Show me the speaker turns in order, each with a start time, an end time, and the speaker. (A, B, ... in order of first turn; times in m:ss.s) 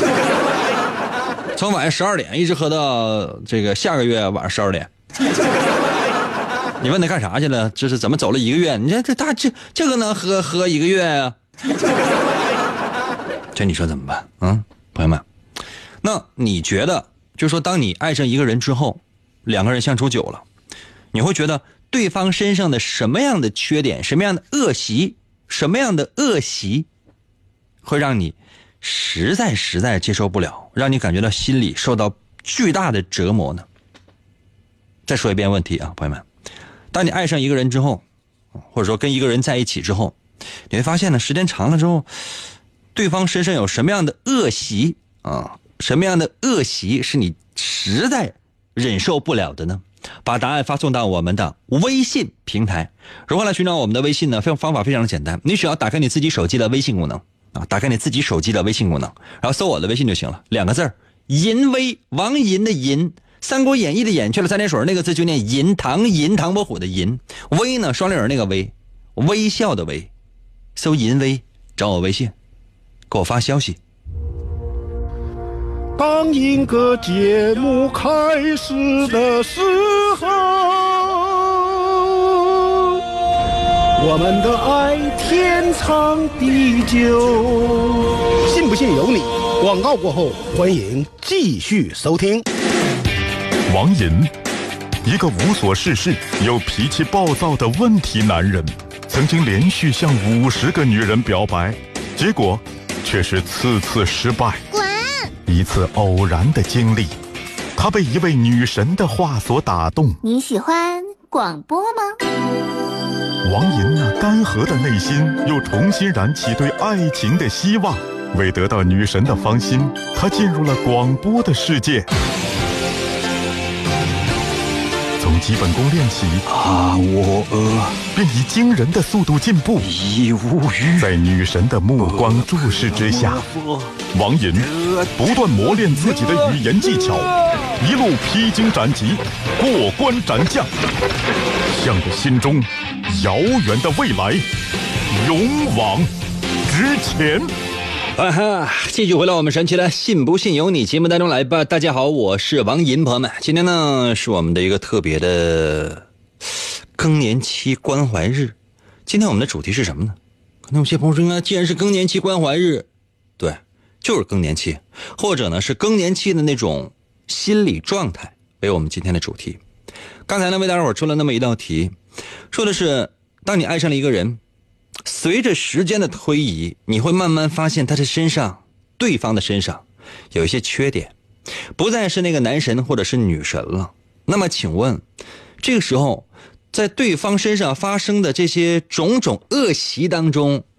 0:01.5-0:04.9 A
0:06.8-0:11.4 A
0:13.5-0:15.2 A
0:16.0-0:20.4 A
0:21.1-0:26.9 A
0:27.8-0:33.6 A
0:35.1-0:36.2 A
0:36.9-0:38.0 A
0:38.7-0:40.1 A
0:40.7-0:42.1 A
0:42.9-1:10.1 A
1:10.8-1:12.3 A
1:13.1-1:13.8 A
1:16.0-1:22.9 B
1:24.0-1:32.4 B
1:33.7-1:34.3 C
1:35.0-1:44.6 C
1:44.7-1:45.3 D
1:45.5-1:47.2 C
1:47.7-1:50.2 C
1:50.2-1:52.2 D
1:53.4-2:02.1 C
2:05.2-2:06.4 C
2:06.5-2:07.9 A
2:08.1-2:10.0 C
2:09.9-2:11.0 A
2:11.0-2:13.4 C
2:14.1-2:20.7 C
2:21.7-2:24.5 C
2:25.1-2:26.1 C
2:26.7-2:27.5 C
2:28.2-2:36.0 A
2:36.9-2:38.5 A
2:39.0-2:42.9 A
2:43.4-2:49.6 A
2:50.3-2:52.0 A
2:52.5-2:54.4 A
2:55.0-3:01.1 A
3:01.7-3:05.0 A
3:05.6-3:10.6 A